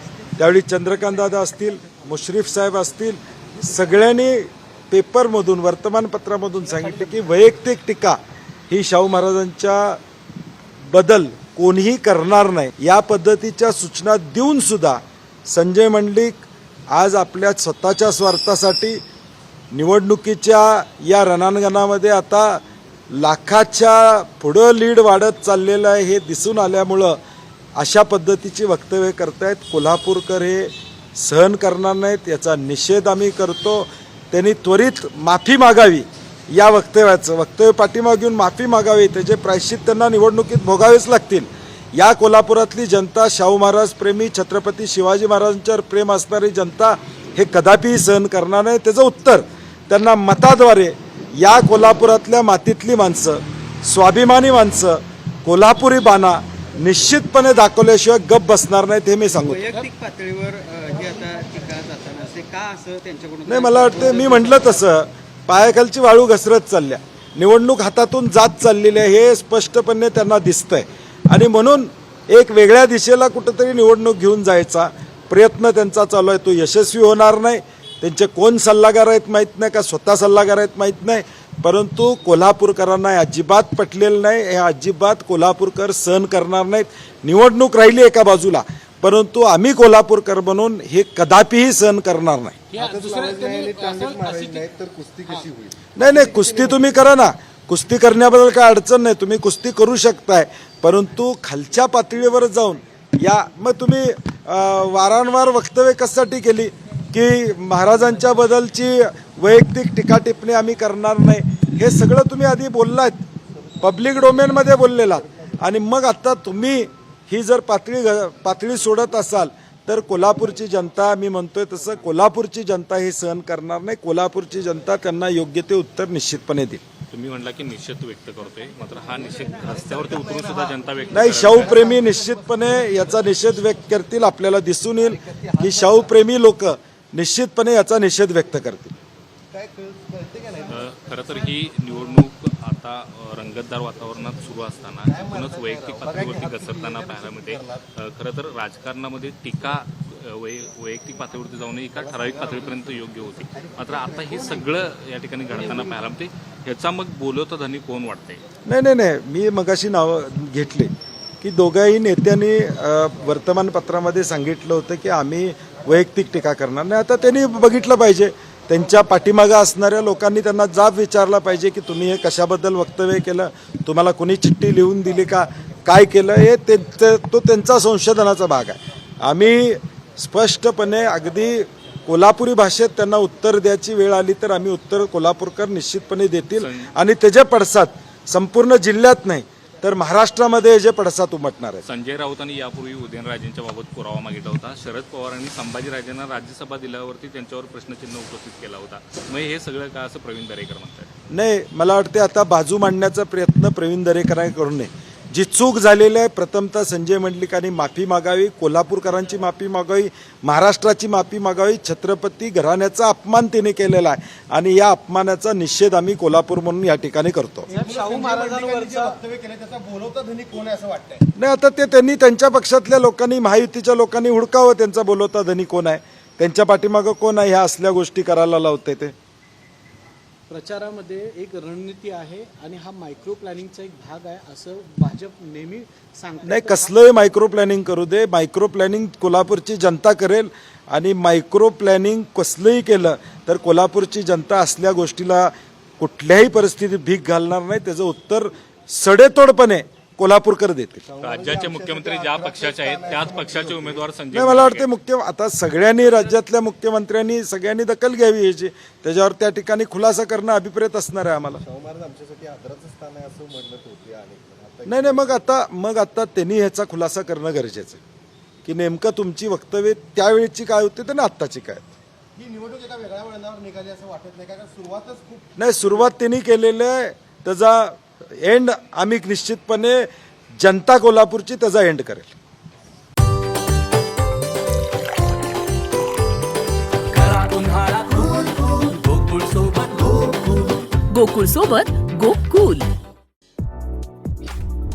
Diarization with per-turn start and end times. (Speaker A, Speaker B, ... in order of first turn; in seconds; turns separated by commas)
Speaker A: 0.4-8.2, Speaker A: 8.7-10.0, Speaker A: 10.9-19.0, Speaker A: 19.7-27.2, Speaker A: 27.8-59.7, Speaker B: 59.3-64.8, Speaker A: 63.5-92.6, Speaker C: 92.7-94.7, Speaker D: 92.7-96.8, Speaker A: 96.0-113.2, Speaker A: 113.8-126.8, Speaker E: 127.1-131.9, Speaker D: 129.5-130.7, Speaker A: 131.1-138.9, Speaker D: 131.4-133.1, Speaker D: 135.2-136.1, Speaker D: 139.5-140.9, Speaker E: 140.7-158.4, Speaker D: 145.1-147.8, Speaker D: 152.1-153.0, Speaker D: 153.8-154.4, Speaker A: 158.7-160.9, Speaker A: 161.4-191.8, Speaker E: 186.6-186.9, Speaker E: 191.8-201.1, Speaker A: 201.3-217.7, Speaker C: 217.7-219.2, Speaker D: 217.8-221.2, Speaker A: 221.3-229.1, Speaker C: 230.5-237.0, Speaker A: 236.4-251.0, Speaker D: 251.1-254.0, Speaker E: 251.2-254.9, Speaker A: 254.3-261.6, Speaker D: 261.6-265.4, Speaker A: 264.9-268.0, Speaker A: 268.6-271.9, Speaker D: 272.4-276.1, Speaker A: 275.6-280.1, Speaker A: 280.6-282.3, Speaker C: 287.1-288.2, Speaker F: 288.1-289.1, Speaker C: 289.0-290.5, Speaker E: 289.3-289.6, Speaker F: 290.1-292.9